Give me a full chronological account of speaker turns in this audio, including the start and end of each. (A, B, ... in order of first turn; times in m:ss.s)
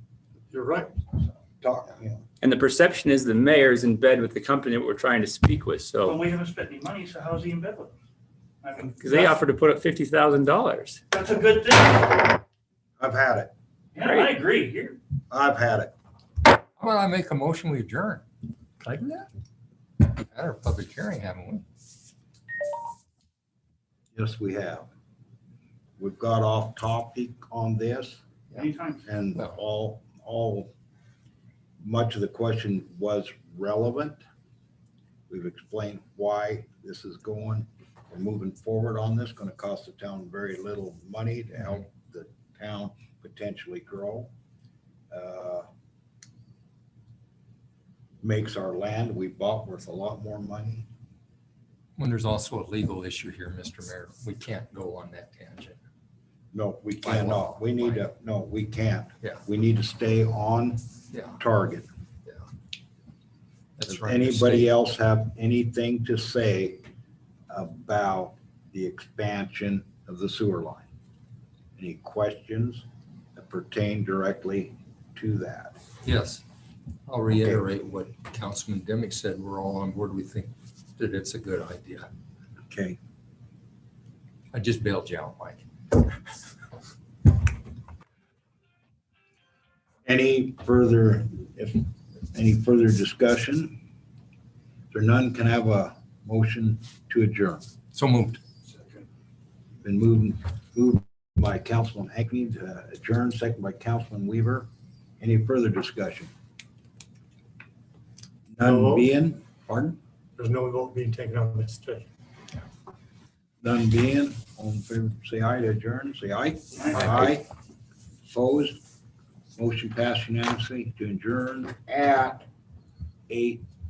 0:00.5-0:00.9 A
0:01.6-0:02.2 B
0:02.4-0:06.2 C
0:06.0-0:08.0 D
0:08.6-0:09.4 D
0:09.0-0:11.0 C
0:11.1-0:12.4 D
0:13.0-0:13.5 B
0:14.0-0:15.0 D
0:14.0-0:14.3 C
0:15.3-0:15.9 B
0:16.8-0:18.2 E
0:18.8-0:19.2 E
0:20.1-0:21.6 E
0:24.1-0:24.9 B
0:26.0-0:28.2 B
0:28.5-0:29.1 D
0:29.0-0:30.7 B
0:31.8-0:34.2 B
0:35.3-0:44.3 B
0:45.1-0:45.7 B
0:48.2-0:50.9 B
0:52.0-0:55.8 E
0:56.5-1:01.9 B
0:57.0-0:58.0 E
1:01.1-1:01.4 E
1:03.8-1:04.7 E
1:03.9-1:06.9 B
1:07.5-1:10.9 B
1:11.8-1:15.8 B
1:16.0-1:16.4 E
1:17.1-1:22.1 E
1:17.3-1:17.6 B
1:22.7-1:23.0 B
1:24.5-1:26.2 E
1:30.0-1:33.8 B
1:34.9-1:37.7 B
1:37.9-1:38.4 E
1:39.8-1:44.7 B
1:45.2-1:46.3 B
1:48.5-1:50.0 B
1:48.6-1:49.1 A
1:50.4-1:52.0 A
1:53.6-1:57.5 B
1:56.8-1:57.3 D
1:58.2-1:58.8 B
1:59.6-2:02.5 B
2:03.3-2:03.6 B